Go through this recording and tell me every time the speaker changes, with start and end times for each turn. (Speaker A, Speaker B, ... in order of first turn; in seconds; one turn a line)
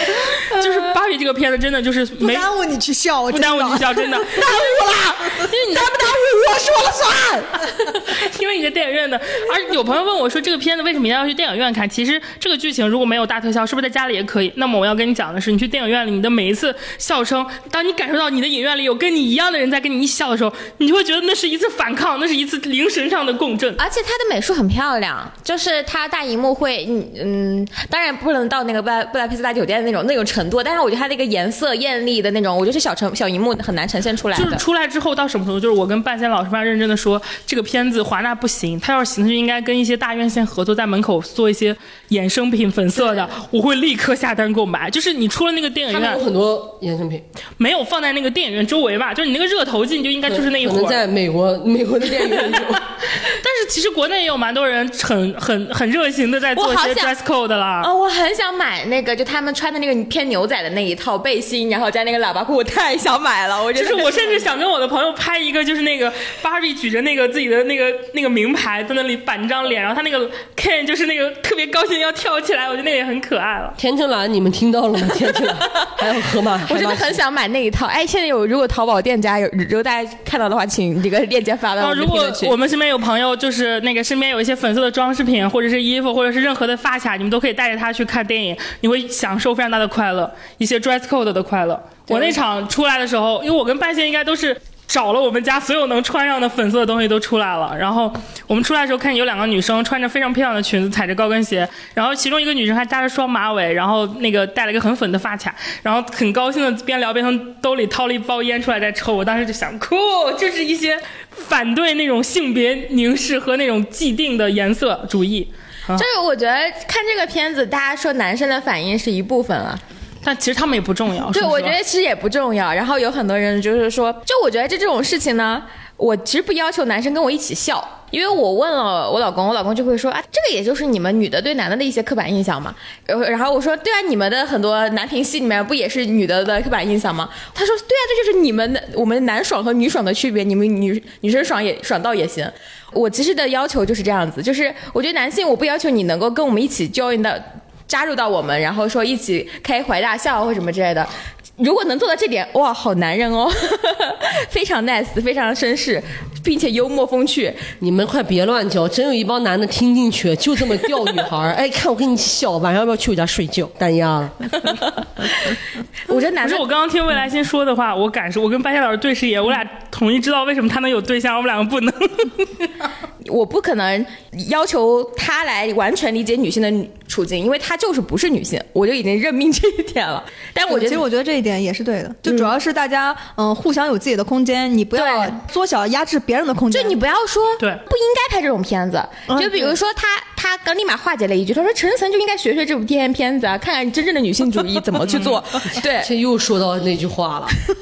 Speaker A: 0.4-2.5
Speaker B: 2.2-5.5
Speaker A: 3.3-4.5
Speaker C: 4.4-7.5
Speaker A: 5.5-6.0
Speaker A: 7.9-23.8
Speaker D: 23.8-34.6
Speaker A: 34.4-46.2
Speaker C: 45.9-47.2
Speaker A: 47.6-51.0
Speaker C: 50.3-52.8
Speaker A: 52.7-57.9
Speaker D: 56.5-57.1
Speaker D: 57.8-64.5
Speaker A: 63.7-73.8
Speaker C: 73.8-77.2
Speaker D: 76.6-82.6
Speaker A: 81.8-116.1
Speaker D: 92.1-92.4
Speaker D: 115.9-119.8
Speaker A: 120.2-121.8
Speaker D: 121.3-157.7
Speaker C: 157.8-164.5
Speaker D: 165.2-165.5
Speaker D: 166.1-166.6
Speaker A: 166.4-172.7
Speaker D: 173.2-181.0
Speaker B: 180.7-187.0
Speaker D: 182.3-182.5
Speaker D: 184.9-185.3
Speaker D: 186.7-196.1
Speaker B: 189.3-189.7
Speaker A: 195.0-195.4
Speaker C: 195.8-197.6